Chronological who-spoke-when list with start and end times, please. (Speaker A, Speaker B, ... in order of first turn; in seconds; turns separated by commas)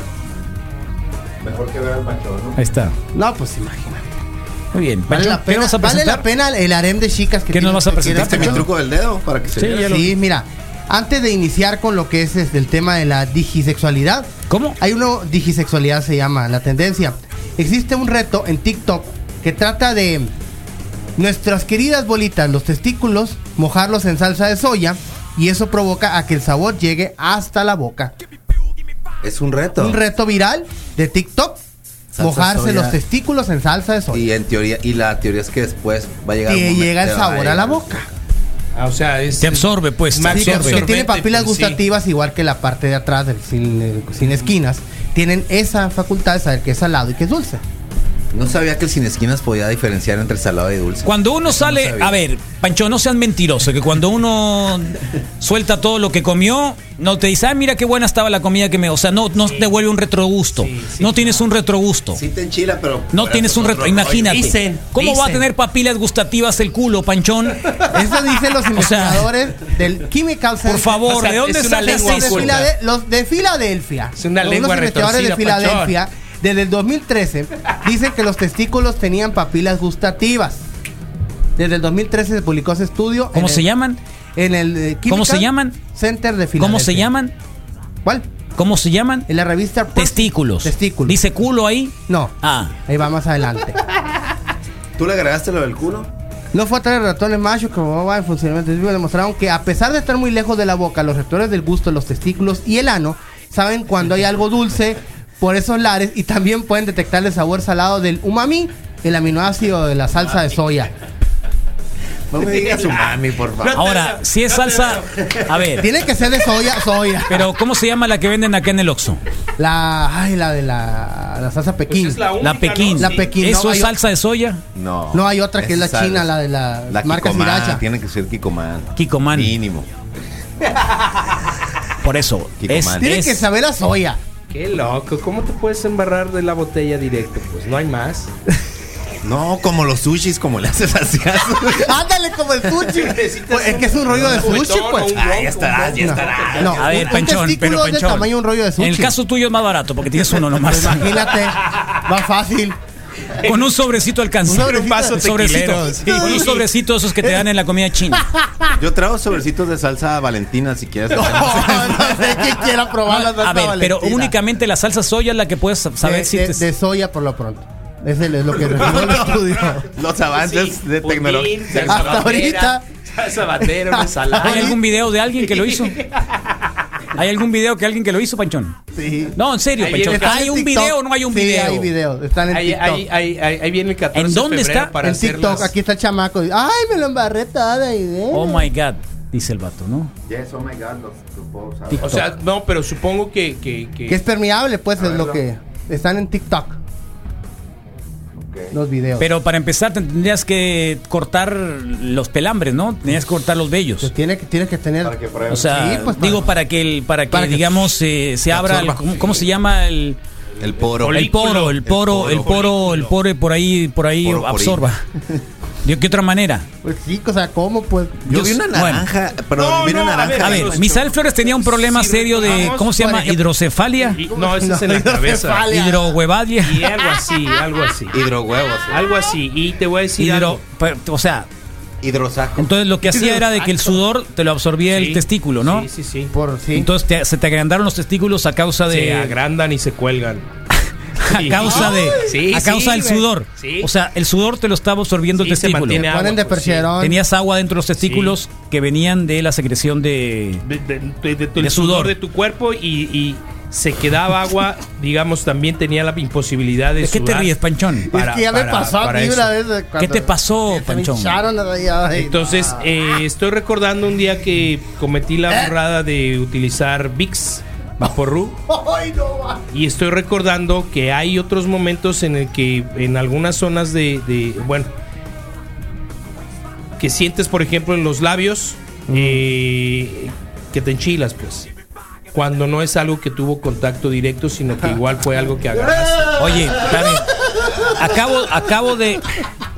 Speaker A: 1.4-2.6, Speaker B: 2.6-3.0, Speaker C: 3.1-4.2, Speaker B: 4.7-6.2, Speaker C: 5.1-8.7, Speaker B: 7.5-8.7, Speaker A: 8.0-10.0, Speaker B: 9.6-10.1, Speaker C: 9.8-14.3, Speaker B: 14.5-14.8, Speaker C: 14.8-20.3, Speaker C: 21.2-28.1, Speaker A: 29.2-30.0, Speaker C: 29.8-31.6, Speaker A: 32.1-33.0, Speaker C: 32.2-34.2, Speaker A: 34.1-38.2, Speaker C: 36.5-38.1, Speaker D: 38.8-41.8, Speaker B: 39.4-40.9, Speaker C: 40.3-47.6, Speaker A: 48.3-52.2, Speaker B: 51.0-62.2, Speaker D: 59.5-59.7, Speaker D: 60.6-61.4, Speaker A: 62.1-64.5, Speaker B: 63.1-67.8, Speaker D: 64.3-65.4, Speaker C: 67.9-71.0, Speaker B: 68.7-69.3, Speaker B: 70.7-72.6, Speaker D: 71.0-72.7, Speaker C: 71.7-80.7, Speaker D: 74.2-76.0, Speaker C: 81.6-83.7, Speaker B: 83.3-84.0, Speaker C: 84.4-87.1, Speaker B: 85.1-85.8, Speaker B: 86.6-87.3, Speaker B: 88.6-89.3, Speaker C: 89.3-91.2, Speaker B: 89.9-92.8, Speaker C: 92.1-92.3, Speaker C: 92.9-93.8, Speaker A: 95.0-96.1, Speaker C: 96.5-110.9, Speaker A: 112.3-113.8, Speaker D: 112.4-115.4, Speaker B: 113.7-115.9, Speaker C: 115.8-117.5, Speaker B: 117.3-119.2, Speaker C: 119.6-122.3, Speaker D: 121.9-123.3, Speaker B: 122.4-124.6, Speaker C: 123.0-123.9, Speaker A: 124.8-126.3, Speaker C: 125.1-127.8, Speaker A: 126.9-129.9, Speaker B: 129.0-129.6, Speaker B: 132.0-133.4, Speaker A: 132.6-133.2, Speaker C: 133.0-134.2, Speaker D: 134.5-138.3, Speaker A: 139.2-142.0, Speaker C: 141.8-145.2, Speaker D: 143.0-147.1, Speaker A: 145.2-146.8, Speaker C: 146.0-149.1, Speaker B: 146.8-151.3, Speaker C: 150.6-152.8, Speaker B: 153.4-158.3, Speaker C: 154.5-155.2, Speaker D: 154.6-156.6, Speaker C: 155.8-156.6, Speaker C: 158.4-158.7, Speaker A: 158.8-162.6, Speaker C: 161.1-164.3, Speaker B: 163.1-166.7, Speaker C: 166.0-169.9, Speaker D: 168.7-169.6, Speaker A: 168.7-172.5, Speaker D: 170.3-174.8, Speaker C: 171.8-172.8, Speaker C: 173.9-174.8, Speaker B: 174.4-176.0, Speaker D: 175.5-176.4, Speaker B: 177.2-178.8, Speaker C: 179.0-179.4, Speaker B: 179.3-181.9, Speaker D: 179.8-180.5, Speaker C: 179.9-183.1, Speaker D: 182.5-185.7, Speaker B: 184.1-184.9, Speaker C: 185.0-188.7, Speaker B: 188.3-190.1, Speaker A: 190.2-192.3, Speaker B: 191.9-192.3, Speaker D: 192.0-194.2, Speaker C: 194.1-196.8, Speaker A: 195.0-195.4, Speaker A: 198.3-198.8, Speaker C: 198.7-199.3, Speaker B: 199.2-204.1, Speaker C: 204.0-206.5, Speaker A: 205.0-206.5, Speaker B: 205.5-210.2, Speaker C: 207.3-207.8, Speaker A: 208.5-209.2, Speaker A: 210.6-212.6, Speaker D: 210.9-213.2, Speaker B: 211.1-215.0, Speaker A: 214.2-215.4, Speaker B: 215.8-216.7, Speaker C: 216.8-218.2, Speaker B: 218.3-219.1, Speaker A: 218.3-220.9, Speaker D: 219.5-222.9, Speaker B: 220.4-224.2, Speaker C: 222.5-223.4, Speaker D: 224.1-225.7, Speaker C: 224.3-226.2, Speaker B: 225.7-226.9, Speaker D: 226.6-228.2, Speaker A: 228.1-229.1, Speaker D: 228.9-230.6, Speaker B: 230.2-231.5, Speaker A: 232.0-232.7, Speaker B: 232.6-235.9, Speaker D: 233.2-233.9, Speaker D: 234.9-236.3, Speaker C: 236.3-236.9, Speaker B: 236.8-239.4, Speaker D: 238.9-240.5, Speaker B: 241.2-246.1, Speaker D: 241.3-243.9, Speaker C: 241.6-242.5, Speaker D: 245.4-246.9, Speaker C: 246.0-247.2, Speaker B: 247.0-250.6, Speaker D: 248.0-248.3, Speaker D: 250.7-257.6, Speaker B: 251.6-252.1, Speaker B: 257.0-258.1, Speaker C: 258.1-262.9, Speaker D: 258.1-259.5, Speaker B: 260.0-261.4, Speaker D: 262.1-268.6, Speaker C: 268.7-269.6, Speaker D: 269.7-274.9, Speaker D: 277.0-281.7, Speaker C: 279.1-279.4, Speaker D: 282.3-286.6, Speaker A: 286.0-287.0, Speaker B: 286.4-287.3, Speaker B: 287.9-289.2